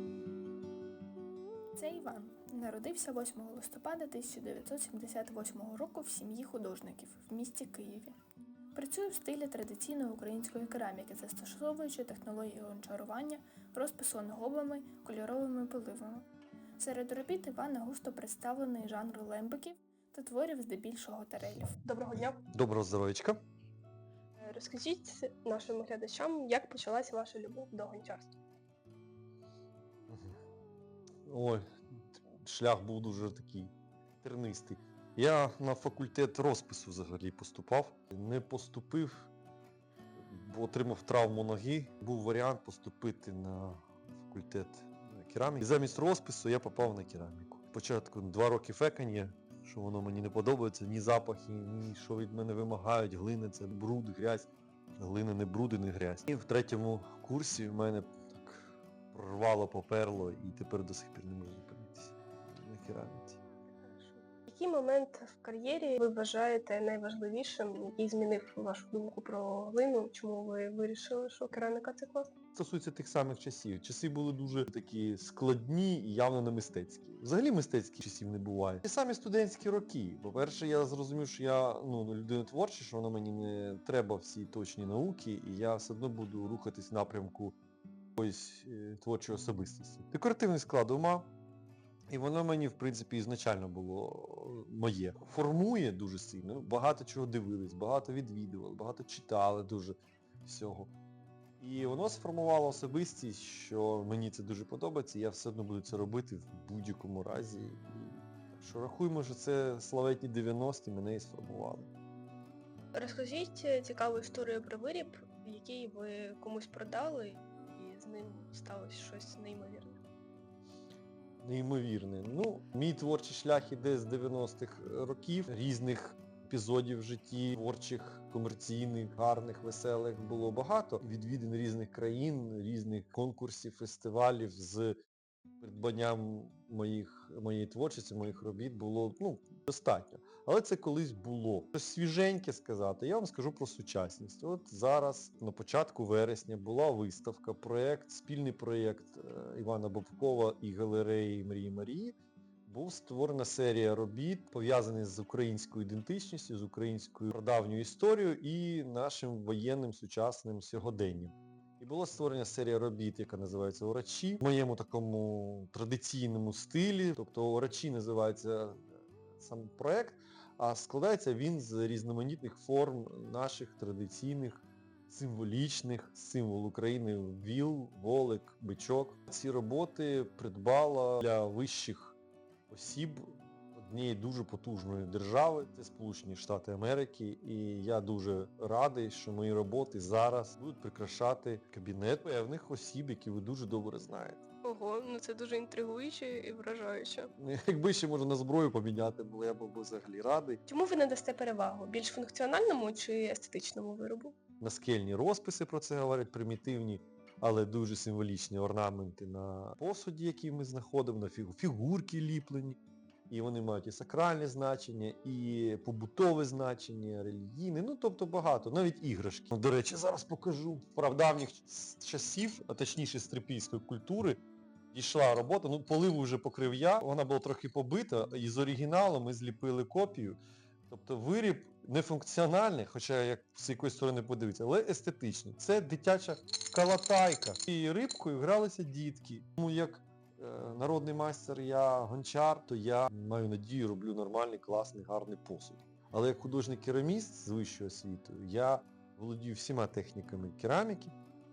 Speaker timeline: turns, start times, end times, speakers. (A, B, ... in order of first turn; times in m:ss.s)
0:01.8-0:08.2 A
0:08.8-0:21.8 A
0:21.8-0:22.4 B
0:22.5-0:23.4 C
0:24.4-0:28.4 B
0:30.1-0:30.4 C
0:31.2-0:39.3 C
0:40.2-1:03.4 C
1:03.7-1:12.3 B
1:12.5-1:27.6 C
1:28.2-1:31.3 C
1:32.1-1:40.9 C
1:41.6-1:51.9 C
1:52.9-2:00.0 B
2:01.4-2:15.0 C
2:15.6-3:02.2 C
3:02.7-3:14.4 C
3:14.6-3:17.3 B
3:17.4-3:20.6 C
3:20.7-3:24.4 B
3:24.6-3:32.8 C
3:33.3-3:44.4 C
3:44.9-4:11.2 C